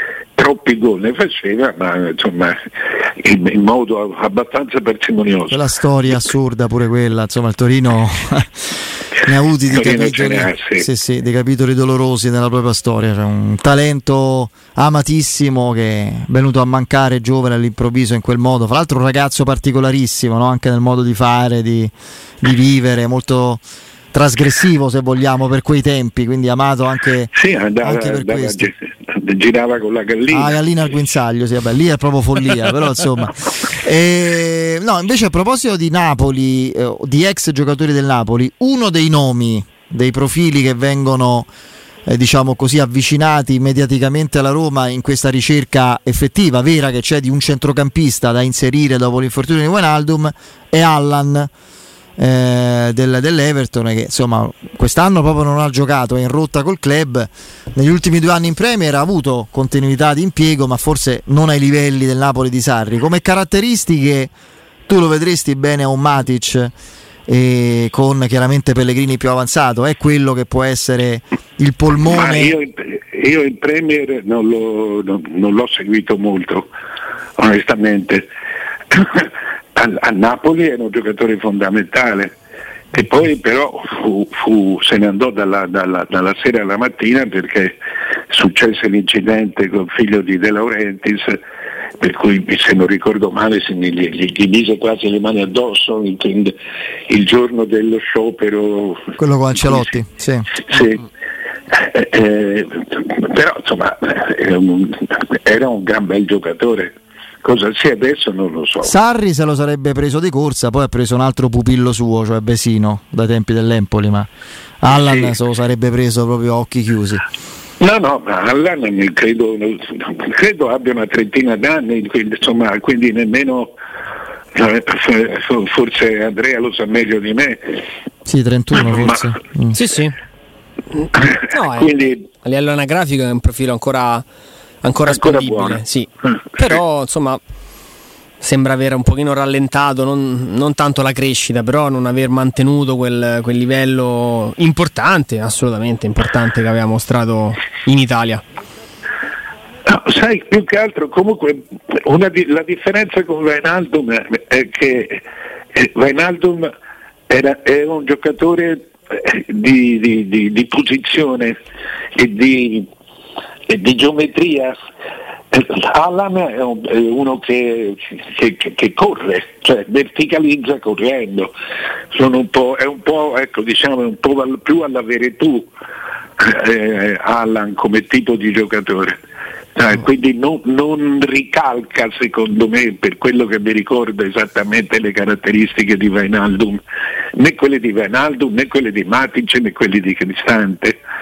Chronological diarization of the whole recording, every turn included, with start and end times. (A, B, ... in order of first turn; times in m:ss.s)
0:00.4-0:06.2 A
0:05.5-0:27.3 B
0:09.7-0:10.8 A
0:27.3-0:30.6 A
0:27.8-0:28.7 B
0:30.3-0:41.5 B
0:42.1-0:51.5 B
0:52.2-1:04.3 B
1:04.9-1:06.7 B
1:07.3-1:12.6 B
1:12.1-1:16.7 A
1:17.4-1:18.3 A
1:18.9-1:22.4 A
1:22.9-1:27.8 A
1:28.3-1:31.4 A
1:32.0-1:36.5 A
1:37.1-1:39.1 A
1:39.2-1:40.5 B
1:40.7-1:41.1 A
1:41.7-1:48.9 A
1:48.8-1:54.3 B
1:54.8-1:57.2 B
1:54.9-1:55.4 A
1:57.8-2:03.7 A
2:04.6-2:07.8 A
2:08.3-2:09.8 B
2:08.8-2:09.2 A
2:09.7-2:10.2 C
2:11.2-2:12.2 A
2:11.5-2:14.2 C
2:14.8-2:17.4 C
2:15.1-2:15.8 A
2:18.4-2:28.4 C
2:29.9-2:36.7 A
2:37.3-2:41.6 A
2:42.2-2:42.9 A
2:43.7-2:44.7 A
2:45.5-2:51.5 A
2:52.1-2:55.7 A
2:56.4-2:59.2 A
2:59.8-3:06.8 A
3:07.4-3:11.0 A